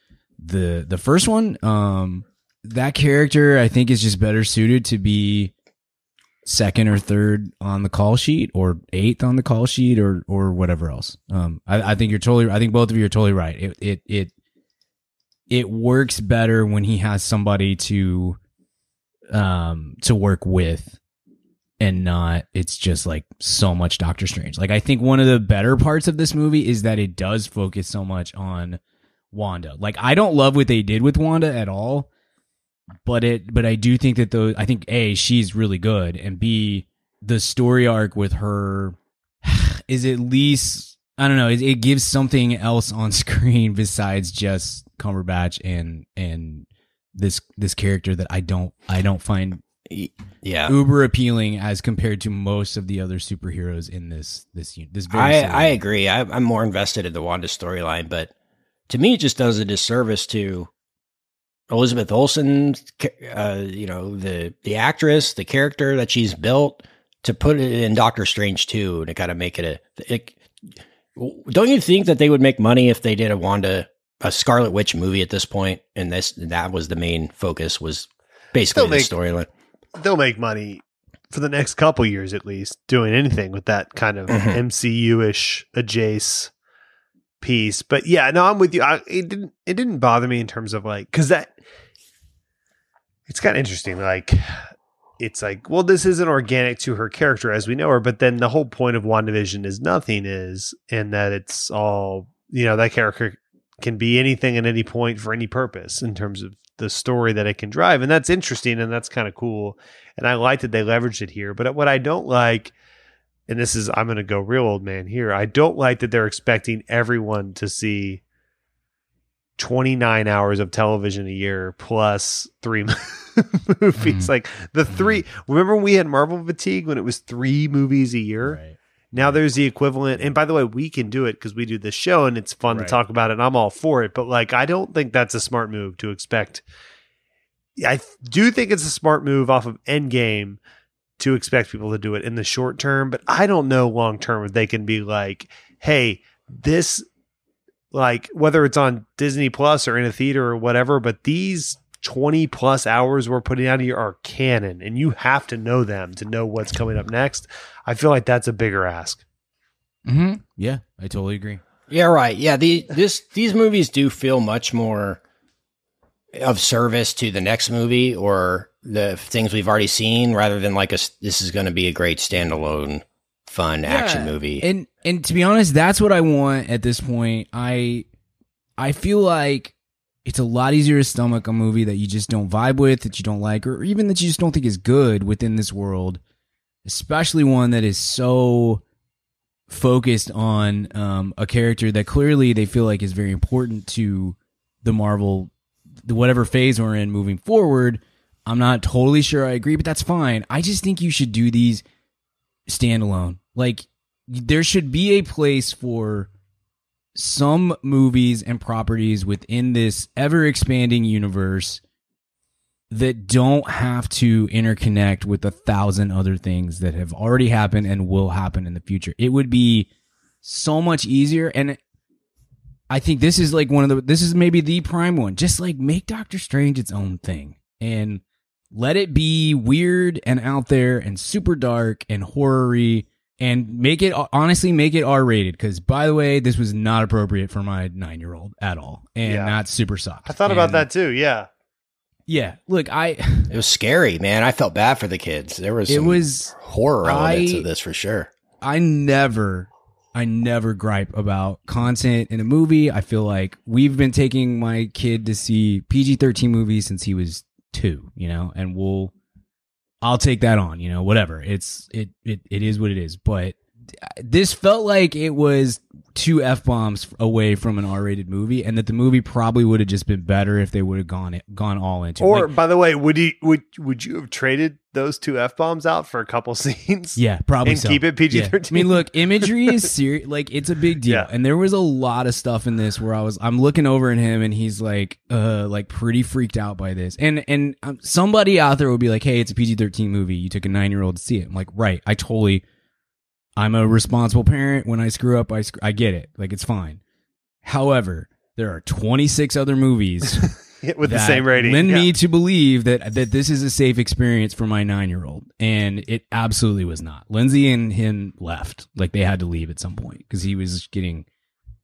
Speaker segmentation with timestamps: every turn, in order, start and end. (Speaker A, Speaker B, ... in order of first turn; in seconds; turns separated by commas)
Speaker A: 0.4-5.5, Speaker A: 6.4-14.3, Speaker A: 15.5-18.4, Speaker A: 19.3-21.0, Speaker A: 21.8-28.8, Speaker A: 29.3-32.1, Speaker A: 33.0-49.6, Speaker B: 49.9-50.8, Speaker A: 50.7-55.8, Speaker B: 55.1-58.3, Speaker B: 58.9-60.7, Speaker B: 61.7-70.3, Speaker B: 71.2-79.5, Speaker C: 78.7-79.1, Speaker C: 80.0-86.5, Speaker B: 84.3-84.6, Speaker C: 87.4-91.6, Speaker C: 93.3-94.6, Speaker C: 95.2-112.7, Speaker C: 113.5-118.2, Speaker C: 119.6-128.6, Speaker A: 124.0-124.3, Speaker A: 124.9-125.2, Speaker A: 128.4-129.4, Speaker C: 129.1-136.6, Speaker A: 132.7-133.0, Speaker C: 137.8-140.6, Speaker C: 141.2-147.0, Speaker C: 147.9-159.2, Speaker A: 160.1-161.6, Speaker B: 161.9-165.2, Speaker B: 166.3-174.7, Speaker A: 173.8-178.1, Speaker A: 178.8-179.7, Speaker A: 180.2-186.2, Speaker A: 186.8-188.8, Speaker A: 189.7-195.5, Speaker A: 196.0-201.8, Speaker A: 202.7-206.3, Speaker A: 207.1-211.8, Speaker A: 212.9-219.9, Speaker A: 220.4-221.8, Speaker A: 222.9-240.9, Speaker C: 239.2-239.6, Speaker C: 240.2-241.5, Speaker A: 242.3-243.5, Speaker B: 243.5-248.3, Speaker A: 245.9-247.7, Speaker A: 248.6-259.1, Speaker A: 260.0-272.5, Speaker C: 272.2-279.9, Speaker A: 277.2-292.6, Speaker A: 293.6-297.0, Speaker A: 297.6-300.5, Speaker C: 300.8-302.1, Speaker A: 301.0-311.2